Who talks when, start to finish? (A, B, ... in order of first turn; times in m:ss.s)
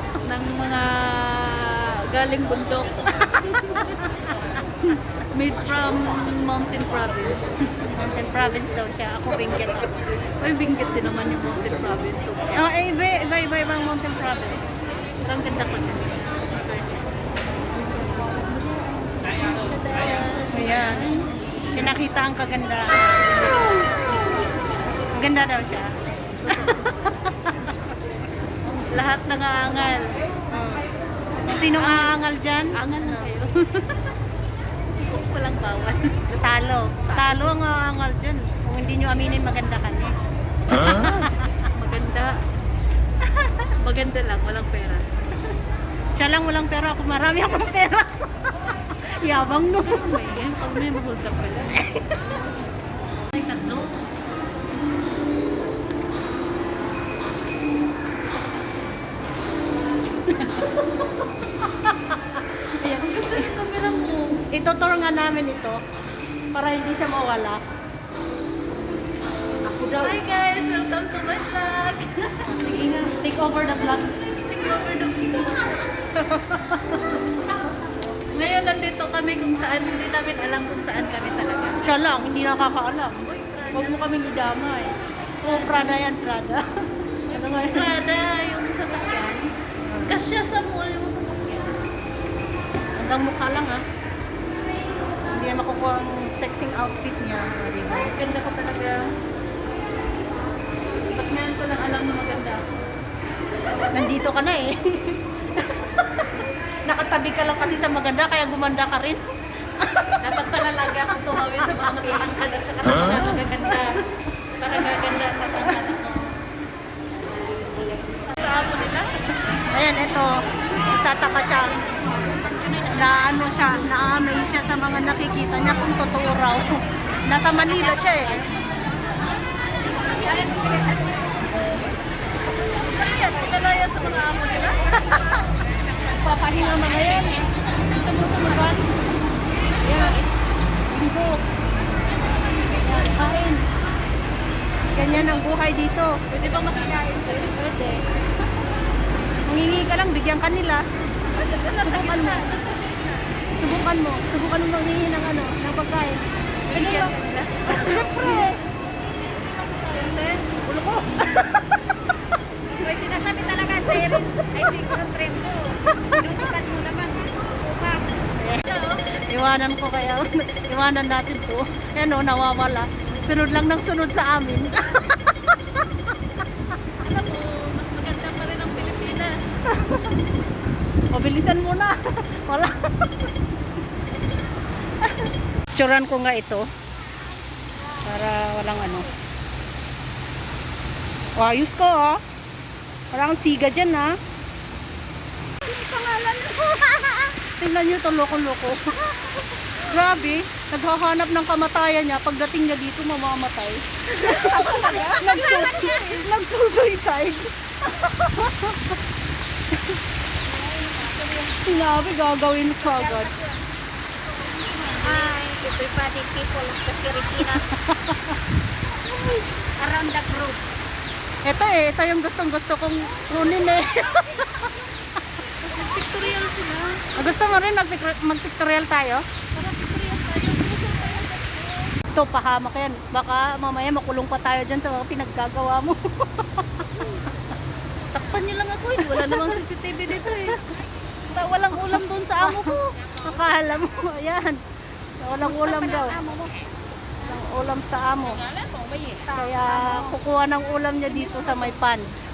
0:00.2-0:03.3 A
0:03.4-0:04.1 B
0:04.8-0:07.5 A
0:07.9-0:10.0 B
0:10.4-0:12.6 A
0:12.5-0:14.6 B
0:15.2-0:16.5 A
0:16.6-0:17.0 B
0:18.0-0:21.3 A
0:20.5-0:21.2 B
0:21.7-0:23.9 B
0:25.1-0:25.9 B
0:26.4-0:27.0 A
0:26.5-0:27.3 B
0:28.9-0:30.1 A
0:30.5-0:30.8 B
0:31.4-0:33.3 B
0:31.7-0:32.2 A
0:32.7-0:34.1 A
0:35.0-0:36.4 A
0:36.4-0:40.1 B
0:37.1-0:37.6 A
0:40.7-0:41.5 B
0:41.6-0:42.4 A
0:43.3-0:45.0 A
0:46.2-0:48.5 B
0:49.1-0:50.2 B
0:49.4-0:51.8 A
0:51.8-0:52.2 B
0:53.3-0:54.0 A
1:00.3-1:00.8 A
1:01.6-1:04.4 A
1:04.5-1:05.8 B
1:06.5-1:07.6 B
1:09.6-1:10.2 B
1:10.0-1:12.7 A
1:12.4-1:14.1 B
1:14.1-1:17.1 A
1:18.3-1:21.8 A
1:21.8-1:23.2 B
1:23.2-1:24.2 A
1:23.7-1:26.6 B
1:25.4-1:26.0 A
1:27.3-1:28.0 B
1:27.3-1:29.4 A
1:29.9-1:30.2 B
1:30.0-1:31.8 A
1:33.0-1:33.8 B
1:35.3-1:38.1 B
1:37.9-1:39.1 A
1:41.1-1:42.7 A
1:43.9-1:45.6 B
1:46.9-1:49.2 B
1:49.8-1:50.2 B
1:50.2-1:54.0 A
1:54.6-1:56.2 A
1:58.2-1:59.1 A
1:59.7-2:01.8 B
2:02.8-2:08.5 B
2:10.4-2:11.0 C
2:12.8-2:15.2 A
2:15.1-2:15.4 B
2:16.0-2:19.0 B
2:19.8-2:20.2 B
2:19.8-2:20.1 A
2:20.9-2:21.4 B
2:22.7-2:23.6 B
2:24.9-2:26.1 B
2:26.3-2:28.0 A
2:29.5-2:30.8 B
2:31.2-2:33.2 A
2:31.8-2:32.5 B
2:33.6-2:38.6 B
2:36.7-2:38.2 A
2:39.3-2:40.4 A
2:40.6-2:41.7 B
2:42.7-2:48.1 C
2:43.9-2:44.2 B
2:48.4-2:54.9 B
2:48.6-2:49.2 A
2:57.0-2:59.6 A
3:01.1-3:03.3 B
3:05.8-3:06.7 B
3:08.0-3:09.1 B
3:11.4-3:12.2 B
3:13.1-3:14.1 B
3:15.7-3:28.9 B
3:16.4-3:17.2 C
3:24.5-3:25.6 C
3:30.5-3:31.6 C
3:31.5-3:33.4 B
3:32.9-3:33.6 C
3:35.0-3:37.6 C
3:37.4-3:38.3 B
3:39.8-3:40.5 C
3:41.4-3:44.7 B
3:45.6-3:47.2 A
3:47.2-3:49.2 B
3:49.5-3:51.9 A
3:52.1-3:57.2 B
3:58.1-4:00.6 A
3:58.9-3:59.6 B
4:01.3-4:03.0 A
4:02.4-4:04.6 B
4:05.2-4:06.2 B
4:05.9-4:06.7 C
4:07.2-4:08.4 B
4:08.6-4:09.3 C
4:09.3-4:12.2 B